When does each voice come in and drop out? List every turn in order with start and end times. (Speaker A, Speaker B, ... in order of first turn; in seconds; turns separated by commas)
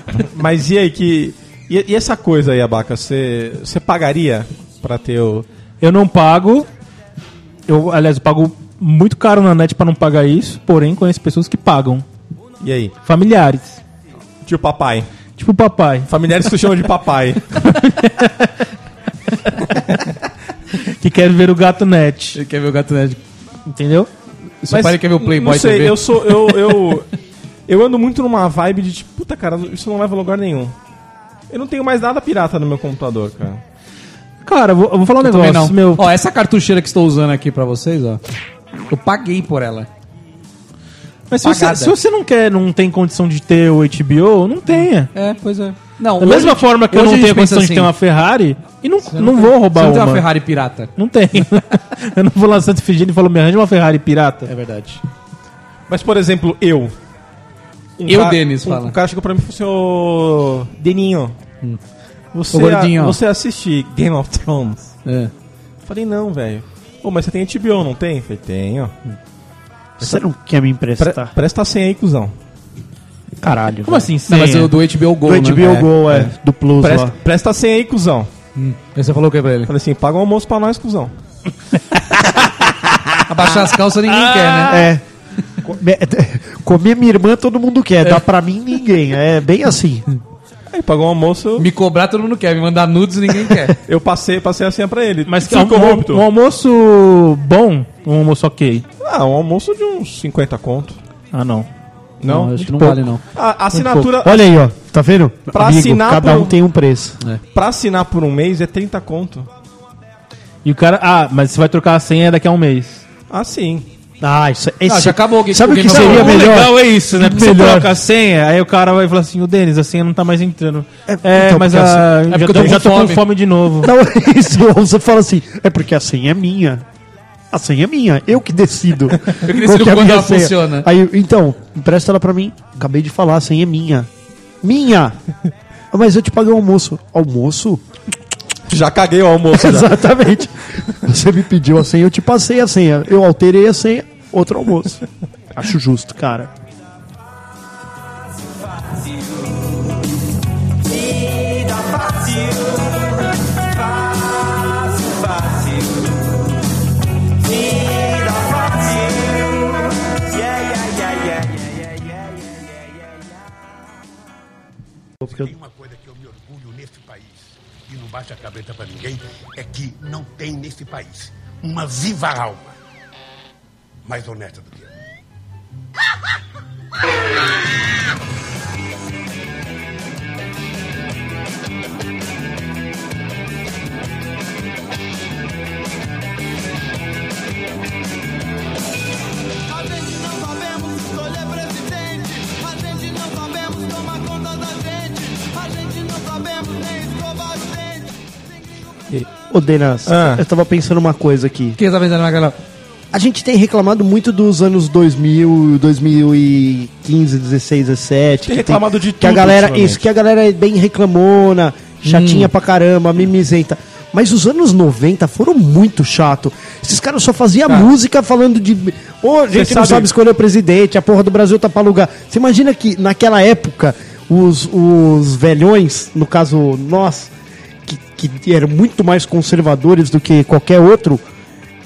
Speaker A: 0.1-5.5, Speaker B: 5.8-6.7, Speaker B: 7.7-12.1, Speaker A: 12.6-12.9, Speaker B: 13.1-13.8, Speaker A: 14.4-15.1, Speaker B: 15.4-16.1, Speaker A: 16.1-17.5, Speaker B: 17.6-18.6, Speaker B: 20.8-22.4, Speaker C: 22.4-23.2, Speaker B: 23.7-24.1, Speaker C: 24.6-26.8, Speaker A: 24.7-27.1, Speaker A: 27.7-30.8, Speaker A: 31.5-33.6, Speaker B: 34.5-36.1, Speaker C: 35.2-38.2, Speaker C: 38.9-39.9, Speaker B: 41.3-45.1, Speaker C: 41.4-42.0, Speaker C: 45.1-47.9, Speaker B: 46.2-50.3, Speaker C: 49.1-50.9, Speaker B: 51.0-54.5, Speaker C: 54.5-55.0, Speaker A: 55.9-57.0, Speaker A: 58.0-61.4, Speaker C: 58.1-59.0, Speaker A: 62.3-65.0, Speaker C: 62.5-63.2, Speaker C: 65.0-65.3, Speaker A: 65.8-69.0, Speaker D: 70.0-71.3, Speaker A: 71.0-72.3, Speaker D: 73.4-74.1, Speaker B: 73.8-74.7, Speaker C: 74.3-75.9, Speaker D: 75.2-77.2, Speaker A: 76.8-78.3, Speaker C: 78.6-79.7, Speaker A: 79.7-81.2, Speaker C: 83.2-84.9, Speaker B: 84.1-84.7, Speaker D: 84.7-85.0, Speaker D: 85.6-90.1, Speaker A: 90.7-91.7, Speaker C: 91.6-93.8, Speaker A: 93.9-96.2, Speaker B: 95.3-98.9, Speaker A: 99.0-101.0, Speaker B: 101.3-101.7, Speaker A: 102.2-104.6, Speaker C: 102.2-103.2, Speaker D: 103.7-107.2, Speaker A: 105.5-106.5, Speaker A: 107.5-109.5, Speaker B: 110.6-113.0, Speaker A: 113.3-113.9, Speaker D: 114.2-118.0, Speaker C: 114.9-116.5, Speaker B: 115.9-123.9, Speaker D: 121.1-122.7, Speaker C: 122.3-123.2, Speaker D: 123.8-126.8, Speaker D: 127.5-134.1, Speaker C: 129.3-130.9, Speaker D: 134.6-135.2, Speaker D: 135.9-137.8, Speaker A: 138.7-140.0, Speaker D: 139.5-146.5, Speaker E: 148.4-150.0, Speaker E: 150.8-156.5, Speaker E: 157.4-163.3, Speaker D: 165.2-165.5, Speaker F: 165.2-172.8, Speaker F: 174.1-174.9, Speaker E: 189.7-198.1, Speaker D: 199.3-201.8, Speaker A: 200.1-200.4, Speaker C: 201.8-202.6, Speaker D: 203.1-227.3, Speaker A: 208.4-210.0, Speaker C: 212.0-212.5, Speaker A: 219.5-220.1, Speaker D: 227.9-231.2